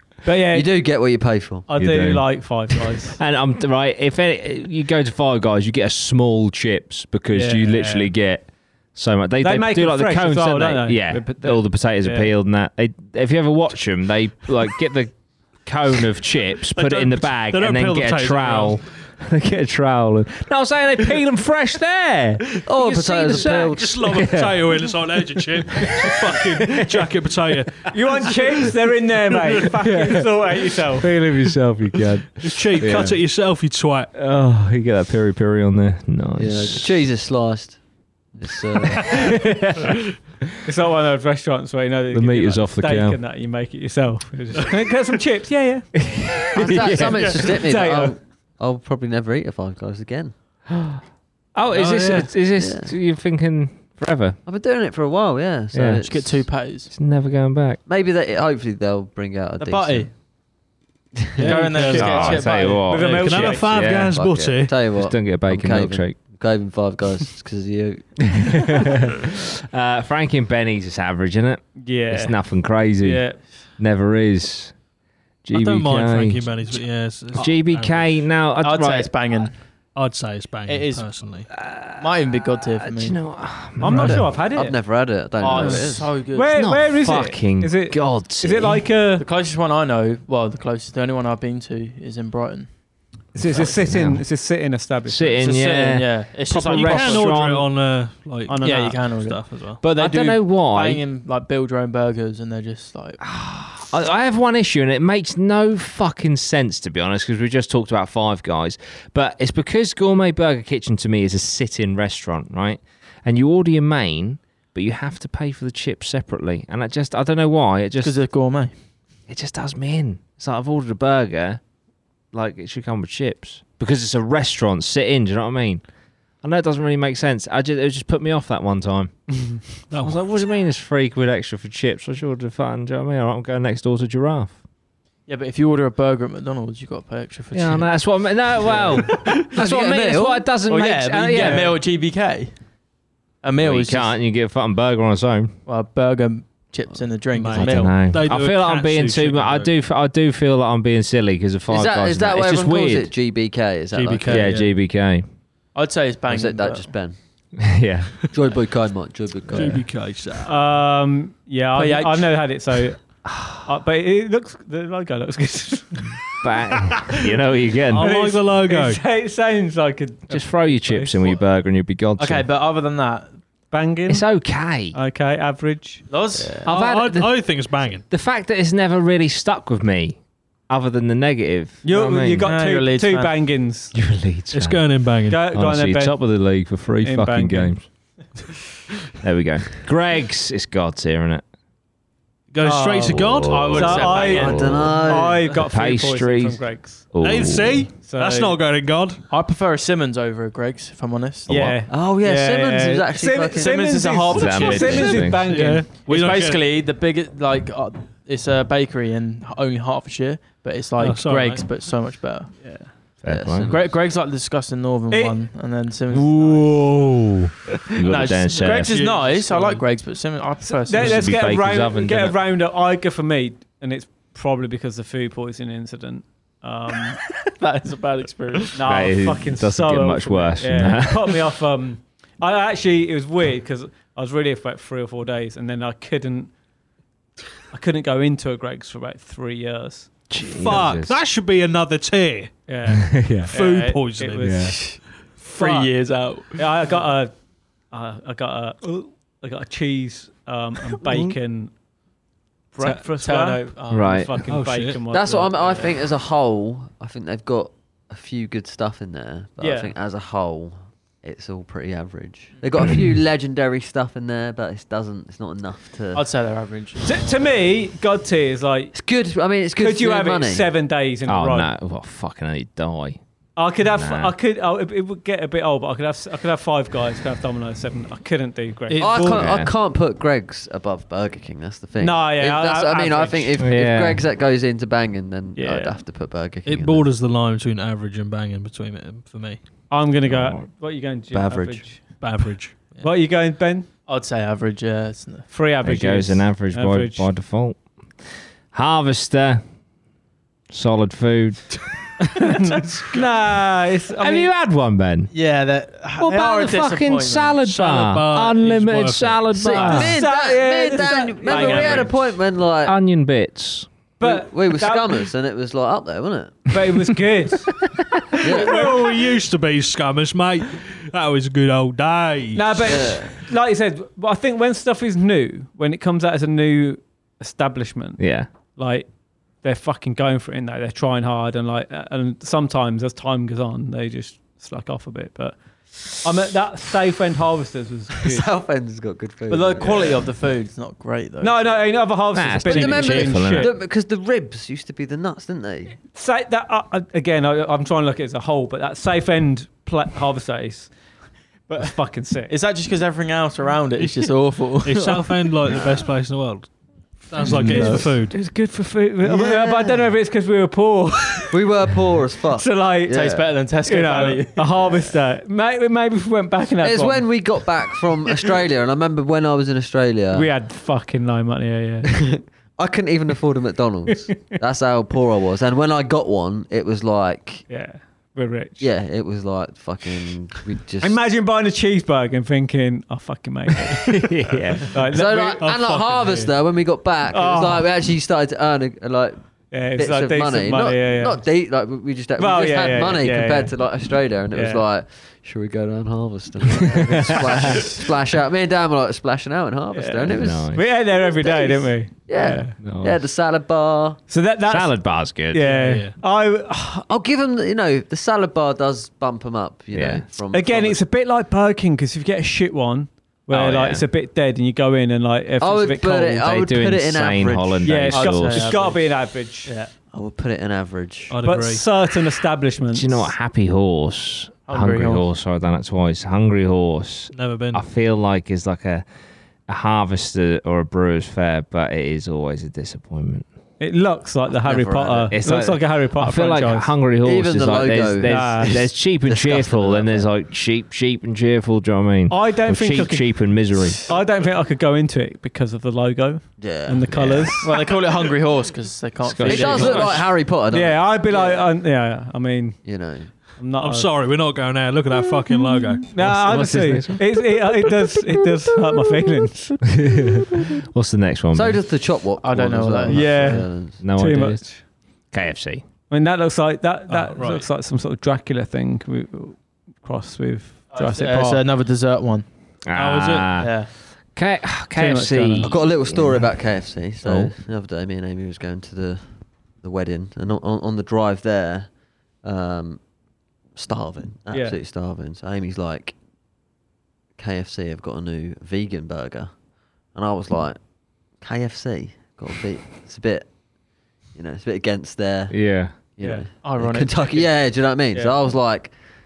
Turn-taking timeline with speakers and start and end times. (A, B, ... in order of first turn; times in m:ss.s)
0:00.2-0:00.7 A
0:00.5-0:01.7 B
0:01.7-0:03.2 A
0:01.8-0:02.6 C
0:03.2-0:24.9 C
0:07.3-0:08.1 A
0:09.4-0:12.3 A
0:16.7-0:18.8 D
0:22.6-0:24.0 B
0:23.7-0:28.7 D
0:25.7-0:27.1 C
0:27.9-0:31.1 A
0:29.8-0:30.4 C
0:31.0-0:33.2 C
0:32.4-0:34.1 D
0:32.8-0:33.1 A
0:34.1-0:36.9 C
0:36.4-0:37.8 B
0:38.3-0:39.3 B
0:39.0-0:40.0 C
0:40.6-0:48.1 A
0:42.1-0:43.2 C
0:46.0-0:47.4 C
0:46.5-0:50.3 B
0:50.7-0:51.0 C
0:51.5-0:54.4 C
0:51.7-0:52.3 D
0:52.6-0:52.9 B
0:54.4-0:56.4 B
0:55.7-0:56.1 C
0:56.0-0:56.9 E
0:56.9-0:57.8 C
0:57.8-1:00.1 B
0:59.6-1:00.1 E
1:01.2-1:01.6 B
1:01.4-1:02.9 E
1:01.4-1:04.9 D
1:01.5-1:04.3 C
1:01.5-1:03.8 A
1:03.8-1:08.9 B
1:04.9-1:06.2 C
1:08.3-1:14.8 C
1:11.8-1:12.4 A
1:13.0-1:13.4 A
1:15.4-1:19.4 C
1:15.5-1:18.3 D
1:18.6-1:19.5 E
1:19.9-1:21.5 D
1:20.7-1:21.2 E
1:21.5-1:24.3 C
1:22.0-1:23.2 E
1:23.8-1:24.8 A
1:23.9-1:24.2 D
1:24.1-1:26.1 B
1:25.4-1:26.6 E
1:25.5-1:29.2 A
1:26.5-1:28.9 C
1:29.2-1:32.7 E
1:33.3-1:35.5 A
1:33.5-1:34.2 C
1:35.1-1:37.7 C
1:35.4-1:37.2 E
1:36.6-1:37.3 A
1:36.6-1:39.8 D
1:38.4-1:39.1 A
1:38.6-1:43.2 E
1:39.8-1:41.0 C
1:43.2-1:58.2 C
1:58.0-1:58.7 E
1:59.3-2:01.6 C
2:02.3-2:05.8 C
2:06.4-2:14.5 C
2:09.3-2:09.6 A
2:09.9-2:10.2 D
2:15.3-2:19.4 E
2:17.5-2:21.8 C
2:19.3-2:20.5 B
2:20.7-2:22.5 E
2:23.4-2:24.1 E
2:23.6-2:25.6 C
2:25.6-2:28.0 E
2:27.3-2:29.7 D
2:27.5-2:33.1 C
2:31.7-2:34.6 B
2:33.9-2:34.7 D
2:34.3-2:35.2 C
2:35.7-2:36.9 E
2:36.3-2:37.2 B
2:37.6-2:38.3 C
2:38.3-2:39.8 B
2:39.5-2:40.5 D
2:40.4-2:43.0 A
2:41.7-2:42.3 E
2:43.3-2:43.6 C
2:43.6-2:46.2 A
2:46.4-2:48.1 C
2:47.8-2:49.0 D
2:48.0-2:51.4 A
2:50.3-2:52.4 C
2:52.2-2:53.4 E
2:53.7-2:54.3 A
2:54.1-2:55.0 C
2:54.9-2:56.1 A
2:56.1-2:56.7 E
2:56.6-2:58.0 D
2:56.6-3:02.5 C
3:01.8-3:03.9 A
3:02.4-3:03.3 E
3:03.9-3:04.9 C
3:04.5-3:05.4 D
3:05.3-3:06.2 A
3:05.5-3:07.9 C
3:07.0-3:07.8 A
3:09.2-3:11.4 C
3:12.5-3:14.5 D
3:12.6-3:17.0 A
3:13.1-3:15.0 C
3:13.5-3:15.3 E
3:14.3-3:15.4 B
3:15.6-3:18.0 C
3:17.2-3:19.2 D
3:18.0-3:18.6 A
3:19.3-3:21.7 E
3:21.5-3:21.8 C
3:21.5-3:25.9 A
3:21.9-3:24.1 B
3:23.5-3:25.4 E
3:24.3-3:25.4 C
3:25.3-3:26.7 D
3:26.0-3:32.6 E
3:31.0-3:31.7 D
3:32.6-3:32.9 A
3:33.2-3:33.7 C
3:33.2-3:33.9 B
3:33.6-3:36.8 E
3:35.1-3:35.4 A
3:36.1-3:39.0 C
3:38.0-3:41.3 E
3:38.7-3:39.8 D
3:40.6-3:47.2 A
3:41.0-3:42.4 C
3:47.6-3:48.8 E
3:48.7-3:56.5 A
3:48.8-3:51.4 C
3:57.7-4:00.1 A
4:00.3-4:01.2 C
4:00.5-4:02.7 D
4:02.7-4:04.9 A
4:03.0-4:03.5 C
4:03.5-4:05.9 D
4:04.4-4:04.7 C
4:04.6-4:06.6 E
4:05.5-4:05.9 A
4:06.5-4:07.3 A
4:07.9-4:11.7 A
4:11.1-4:11.3 D
4:12.7-4:15.8 A
4:12.9-4:14.3 E
4:13.9-4:14.4 C
4:14.4-4:15.0 D
4:15.1-4:26.2 B
4:19.6-4:19.9 A
4:22.8-4:23.1 C
4:26.1-4:27.4 E
4:27.0-4:28.9 A
4:28.9-4:30.7 B
4:29.8-4:31.7 A
4:31.3-4:33.2 C
4:33.6-4:39.5 A
4:33.9-4:34.3 C
4:38.9-4:39.4 D
4:39.0-4:47.1 B
4:39.3-4:39.7 C
4:42.0-4:43.6 A
4:43.6-4:44.2 C
4:45.6-4:46.0 A
4:46.6-4:49.6 D
4:49.9-4:52.2 A
4:50.3-4:50.6 C
4:51.3-4:52.0 B
4:52.2-4:53.1 D
4:52.7-4:53.9 A
4:54.1-4:55.5 E
4:55.5-4:57.3 A
4:55.8-4:57.8 C
4:58.7-4:59.6 C
5:00.7-5:01.8 C
5:02.3-5:04.5 A
5:04.2-5:05.3 C
5:05.3-5:07.6 E
5:06.2-5:10.2 C
5:07.6-5:10.1 D
5:09.5-5:12.9 B
5:09.8-5:12.1 A
5:11.0-5:12.1 E
5:12.8-5:13.9 C
5:14.2-5:15.2 A
5:14.2-5:16.7 B
5:16.7-5:17.7 A
5:18.4-5:18.8 B
5:18.4-5:23.1 D
5:18.4-5:19.3 A
5:22.5-5:28.2 A
5:22.8-5:23.3 B
5:28.2-5:28.5 C
5:28.7-5:29.1 A
5:29.6-5:38.4 A
5:38.2-5:40.3 B
5:39.5-5:41.8 E
5:39.8-5:40.2 A
5:41.4-5:43.7 A
5:42.3-5:43.7 C
5:42.7-5:46.0 B
5:42.9-5:43.1 E
5:46.1-5:50.9 A
5:51.7-5:52.5 A
5:52.5-5:55.8 E
5:54.0-5:58.4 D
5:57.4-5:58.1 E
5:57.4-6:01.5 A
5:59.2-6:00.1 B
6:01.5-6:03.5 B
6:02.6-6:07.4 A
6:03.1-6:04.7 E
6:04.8-6:05.1 B
6:06.8-6:10.5 B
6:10.3-6:12.1 A
6:12.1-6:17.6 B
6:17.7-6:18.9 A
6:18.8-6:21.2 B
6:21.0-6:26.5 A
6:23.9-6:25.0 C
6:25.1-6:29.4 B
6:27.3-6:27.9 A
6:29.7-6:31.4 A
6:29.9-6:44.2 B
6:32.4-6:33.7 A
6:34.5-6:34.8 A
6:37.0-6:37.8 C
6:39.9-6:42.8 A
6:40.4-6:40.8 C
6:42.8-6:43.2 C
6:44.3-6:47.0 A
6:44.7-6:45.7 C
6:45.7-6:46.2 D
6:47.0-6:51.0 B
6:49.9-6:50.2 C
6:50.5-6:56.4 A
6:53.5-6:54.0 C
6:55.6-6:57.9 B
6:56.4-6:58.8 C
6:57.8-6:59.7 A
6:58.1-6:59.1 E
6:59.6-6:59.9 E
7:00.1-7:01.4 B
7:01.3-7:01.8 D
7:01.4-7:03.3 A
7:02.9-7:09.0 C
7:04.7-7:05.2 E
7:07.3-7:07.8 D
7:09.7-7:13.4 C
7:13.8-7:16.9 A
7:14.6-7:15.3 B
7:15.3-7:24.1 C
7:17.2-7:20.3 B
7:18.2-7:18.8 A
7:22.3-7:27.6 A
7:26.6-7:27.8 B
7:27.6-7:30.2 E
7:29.2-7:30.2 C
7:29.4-7:31.5 B
7:30.7-7:32.8 A
7:32.8-7:33.3 B
7:33.6-7:34.1 A
7:33.8-7:36.1 D
7:36.1-7:39.8 A
7:36.2-7:37.2 C
7:39.8-7:41.8 C
7:41.5-7:44.0 B
7:42.4-7:43.6 E
7:43.1-7:44.8 A
7:44.0-7:45.8 C
7:46.1-7:51.6 A
7:47.1-7:47.7 D
7:50.9-7:52.5 E
7:52.8-7:56.5 C
7:52.9-7:53.6 D
7:53.6-7:53.9 E
7:54.9-7:55.8 A
7:55.6-7:59.2 B
7:57.2-7:57.5 C
7:59.8-8:01.9 B
8:02.4-8:03.0 B
8:03.7-8:06.2 B
8:04.5-8:04.8 A
8:07.4-8:09.5 B
8:10.1-8:10.8 B
8:11.4-8:13.5 B
8:14.3-8:15.5 B
8:15.5-8:15.9 C
8:16.1-8:18.9 B
8:16.2-8:16.4 A
8:16.6-8:17.5 E